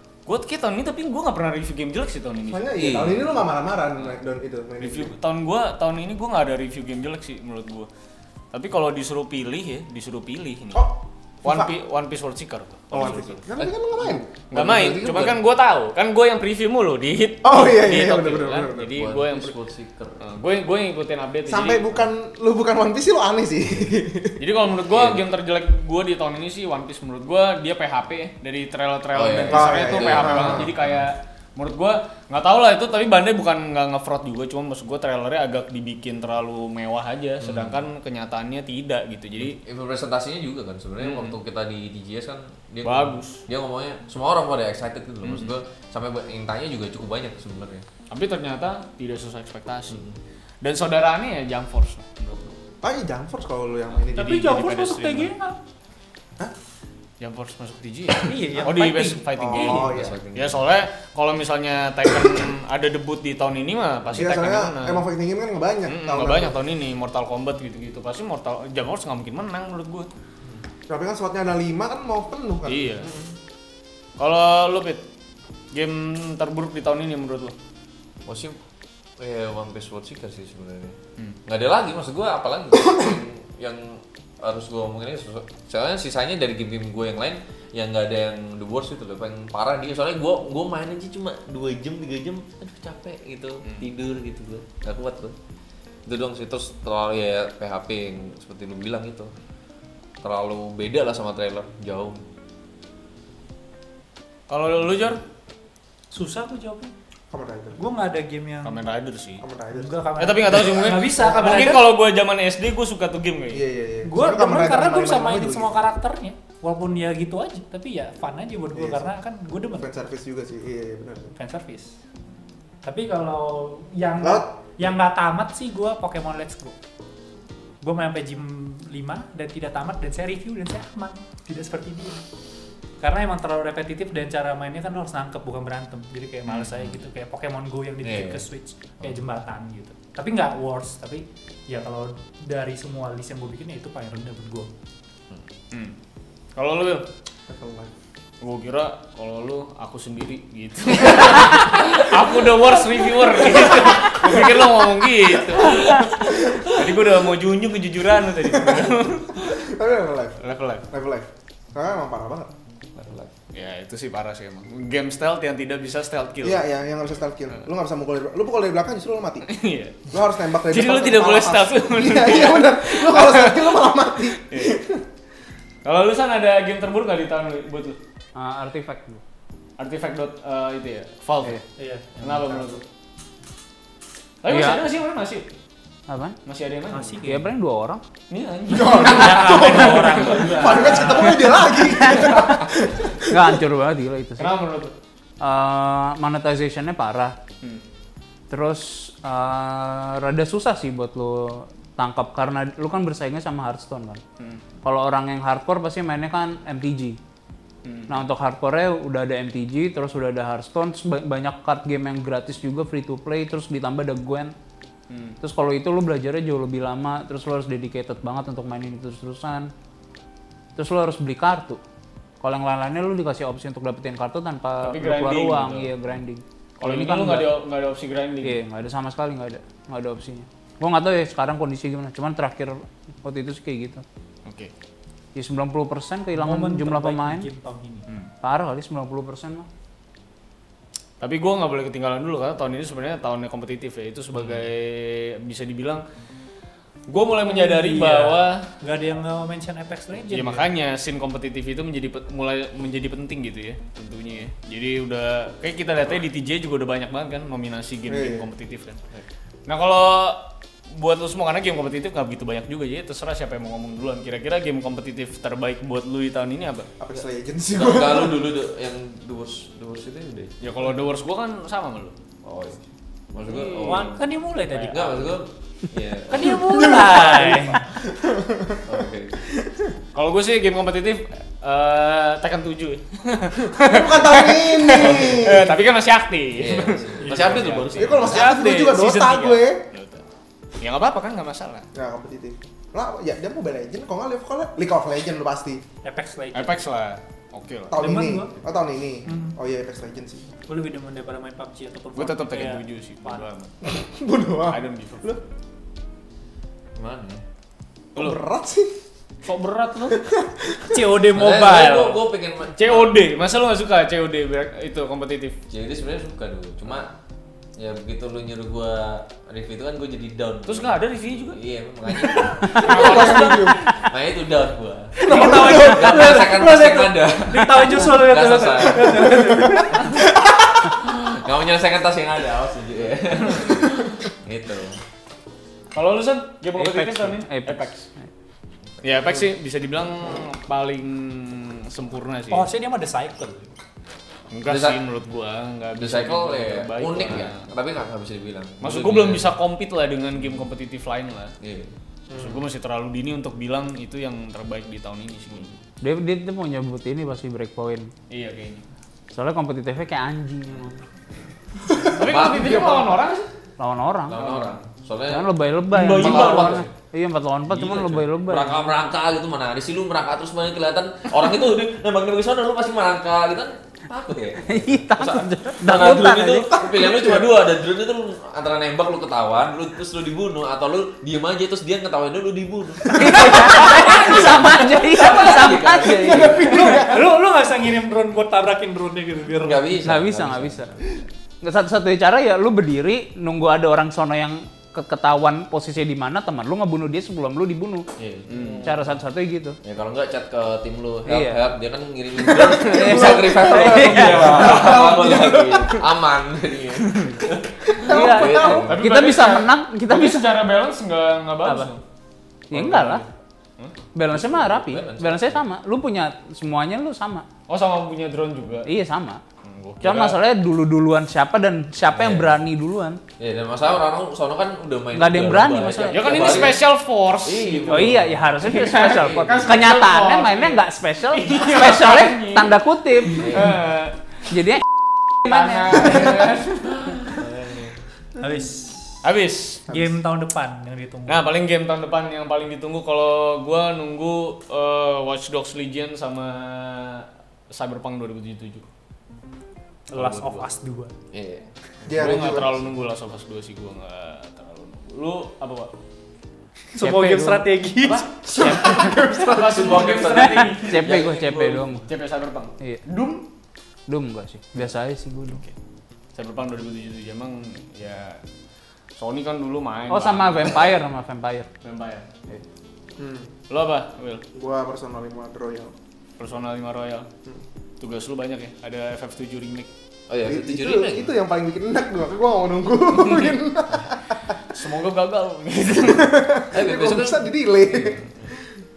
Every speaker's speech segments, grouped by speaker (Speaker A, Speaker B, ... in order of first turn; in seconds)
Speaker A: 0.2-2.7, 4.8-7.9, 8.5-10.9, 11.4-13.4, 14.5-19.5, 20.2-22.0, 24.4-39.6, 41.0-41.3, 42.8-43.4, 45.2-45.5, 48.1-50.0, 50.6-52.5, 54.1-55.3, 57.2-65.0, 65.8-70.1, 72.7-73.1, 74.2-75.0, 75.7-77.5, 104.5-105.2, 108.6-109.4, 110.2-113.6, 145.7-145.9, 146.6-147.1, 148.4-159.5, 160.4-160.9, 163.5-166.6, 169.4-174.8, 175.8-178.0, 179.8-181.6, 182.2-182.8, 184.4-185.5, 186.4-187.2, 188.3-191.2, 194.4-194.9, 207.8-208.2, 215.1-215.4, 224.8-225.9, 226.8-228.6, 234.4-234.7, 241.2-246.0, 247.1-248.7, 250.3-259.0, 259.7-266.9, 270.6-272.2, 280.1-289.1, 289.9-290.2, 290.8-291.9, 296.5-297.9, 302.1-303.7, 304.7-305.3, 309.4-310.2, 312.7-315.6, 320.6-321.6, 322.6-323.9, 335.9-338.0, 339.0-342.7, 344.5-347.6, 348.8-351.5, 352.3-355.8, 358.3-358.8, 362.1-363.5, 364.4-364.7, 366.1-366.7, 398.5-398.9, 404.6-405.1, 408.9-412.0, 412.7-413.3, 417.7-418.9, 419.6-420.4, 426.0-434.1, 435.4-437.9, 439.2-439.9, 441.3-448.9, 450.1-450.6, 452.1-455.9, 458.6-462.7, 466.3-468.4, 469.1-470.9, 471.8-472.3, 473.7-474.4, 476.4-477.3, 478.0-479.9, 483.1-483.6, 484.7-486.7, 487.9-488.3
Speaker B: 2.5-5.1, 10.7-11.7, 12.9-15.3, 17.4-18.9, 21.5-24.4, 29.5-30.7, 52.8-54.6, 59.4-60.2, 64.1-66.5, 70.9-72.9, 107.3-107.8, 109.4-110.0, 113.5-115.7, 118.8-119.0, 119.7-121.3, 124.2-124.5, 147.5-147.9, 158.6-162.5, 166.4-169.4, 170.1-175.0, 188.7-193.6, 258.1-258.5, 267.0-268.4, 276.7-278.8, 283.6-285.8, 287.9-289.8, 291.9-295.8, 297.9-300.4, 303.8-305.4, 308.1-308.9, 310.1-311.0, 322.3-323.8, 325.2-326.5, 329.2-330.9, 352.3-352.6, 376.7-377.5, 383.1-383.8, 386.1-387.3, 402.6-406.0, 407.9-409.0, 452.1-452.9, 458.6-460.0, 473.2-473.5, 474.5-475.9, 480.4-484.6, 486.0-488.2
Speaker C: 2.8-3.3, 13.6-14.1, 14.7-15.3, 18.9-20.3, 24.9-25.2, 29.1-31.0, 37.4-37.8, 39.5-47.8, 49.9-50.2, 59.6-60.6, 73.0-73.3, 78.2-78.6, 79.2-95.3, 96.0-99.3, 100.2-102.2, 136.5-137.0, 138.0-138.4, 163.0-163.3, 267.7-270.5, 272.4-272.8, 273.3-277.4, 278.9-279.4, 286.6-288.4, 306.9-307.4, 311.3-313.1, 315.7-317.1, 317.8-321.0, 321.5-329.6, 330.8-335.0, 344.6-345.0, 345.9-349.5, 351.6-351.9, 362.2-363.2, 364.3-366.9, 367.7-386.9, 389.5-391.0, 398.2-399.0, 399.8-409.1, 414.3-415.6, 422.1-422.5, 423.4-426.8, 427.4-428.3, 433.4-433.8, 451.3-451.6, 458.5-461.8, 480.3-481.3, 486.7-487.5
Speaker D: 54.1-55.6, 58.2-59.2, 106.1-106.9, 107.8-108.8, 109.7-111.8, 114.0-119.9, 121.3-122.0, 122.8-126.8, 127.8-132.2, 133.0-144.7, 181.8-182.8, 186.9-187.5, 188.9-191.4, 236.3-238.1, 247.4-250.7, 273.5-275.3, 276.3-277.9, 287.2-287.8, 288.9-289.6, 296.0-296.8, 298.0-298.5, 299.2-299.6, 300.7-303.4, 310.9-312.2, 325.2-330.1, 342.5-343.7, 386.6-389.8, 438.4-439.2, 439.9-441.4, 450.1-451.1, 456.9-458.3
Speaker E: 178.3-179.2, 184.5-184.8, 186.1-186.4, 187.2-188.0, 193.3-194.5, 195.4-197.4, 198.5-204.2, 204.8-207.2, 208.1-214.5, 215.4-219.7, 220.8-221.8, 222.4-227.6, 228.4-234.0, 235.3-237.4, 238.4-239.7, 336.8-338.2, 356.0-358.1, 359.3-361.0, 363.8-364.5, 365.3-368.8, 374.7-376.7, 383.1-386.9, 390.0-391.0, 391.6-398.1, 398.8-399.8, 401.2-401.6, 402.9-404.7, 408.1-410.5, 411.6-411.9, 412.7-413.2, 414.1-417.5, 418.8-419.4, 420.0-423.2, 425.1-426.8, 427.9-433.6, 434.5-434.8, 435.4-436.3, 457.0-457.7, 458.6-459.1, 460.7-462.0, 464.1-465.6, 470.1-471.7